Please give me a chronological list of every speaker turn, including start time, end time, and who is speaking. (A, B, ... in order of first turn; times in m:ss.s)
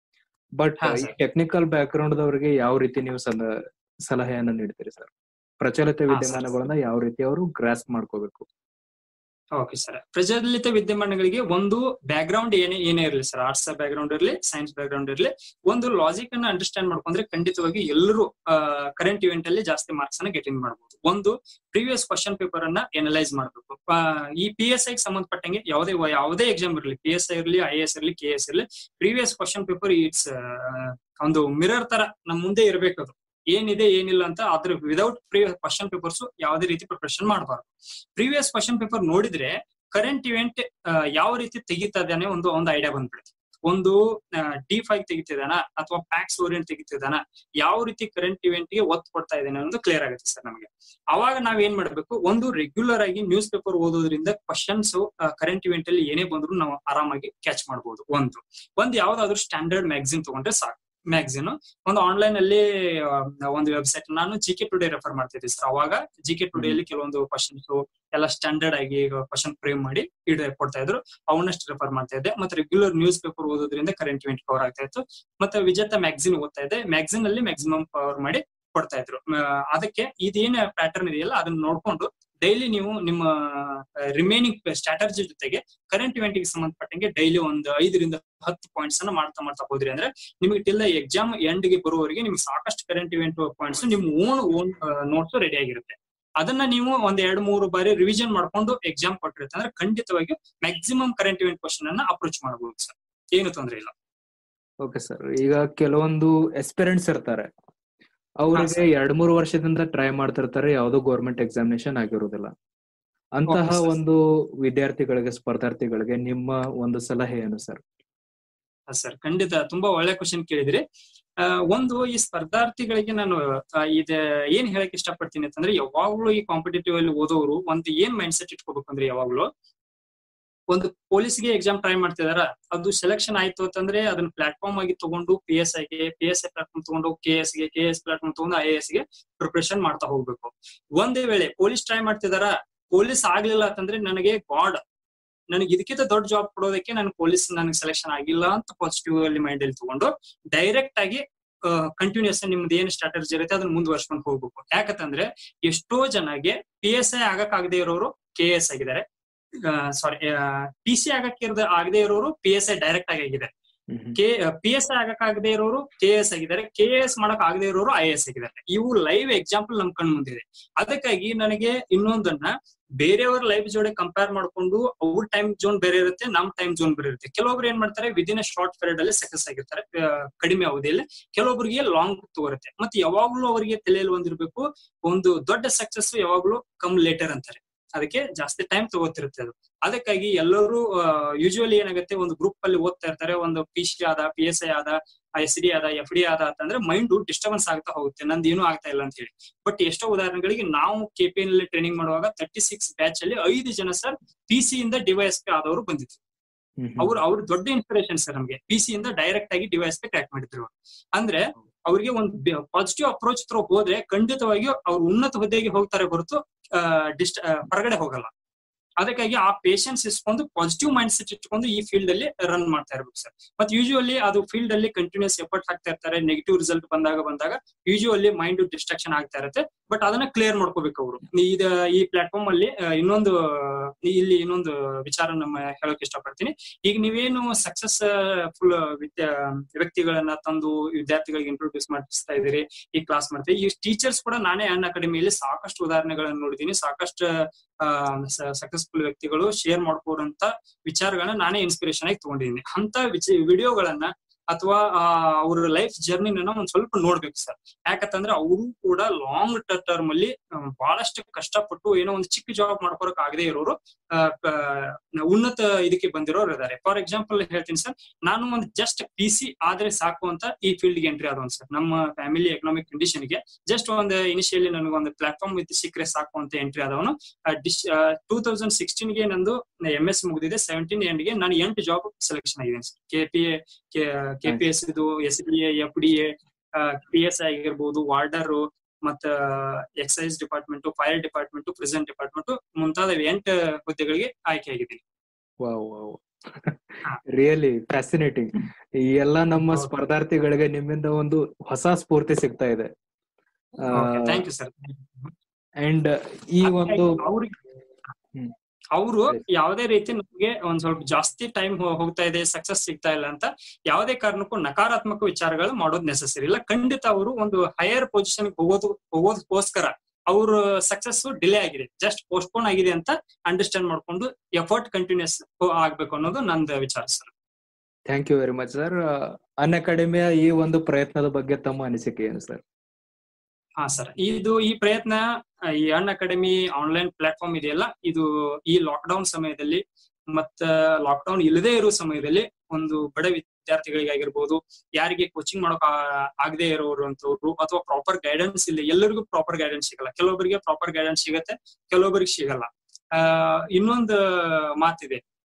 0:00.6-0:03.5 A
0:00.8-0:01.1 B
0:04.1-0:08.4 A
0:06.1-0:06.4 B
0:09.6-1:43.9 B
1:44.8-1:47.5 A
1:48.4-1:52.5 A
1:53.4-1:57.8 A
1:53.5-1:53.9 B
1:58.9-2:00.8 B
2:01.4-2:09.5 B
2:10.7-2:24.8 B
2:25.5-2:39.0 B
2:39.6-2:43.5 B
2:43.9-2:44.2 A
2:44.1-3:26.2 B
3:26.8-3:27.2 A
3:27.0-3:38.3 B
3:39.0-4:55.0 B
4:55.6-5:02.9 A
5:03.8-5:04.4 A
5:03.9-5:05.3 B
5:05.8-5:07.2 A
5:06.6-5:07.6 B
5:08.9-5:27.3 B
5:28.1-5:32.6 A
5:33.8-5:55.2 B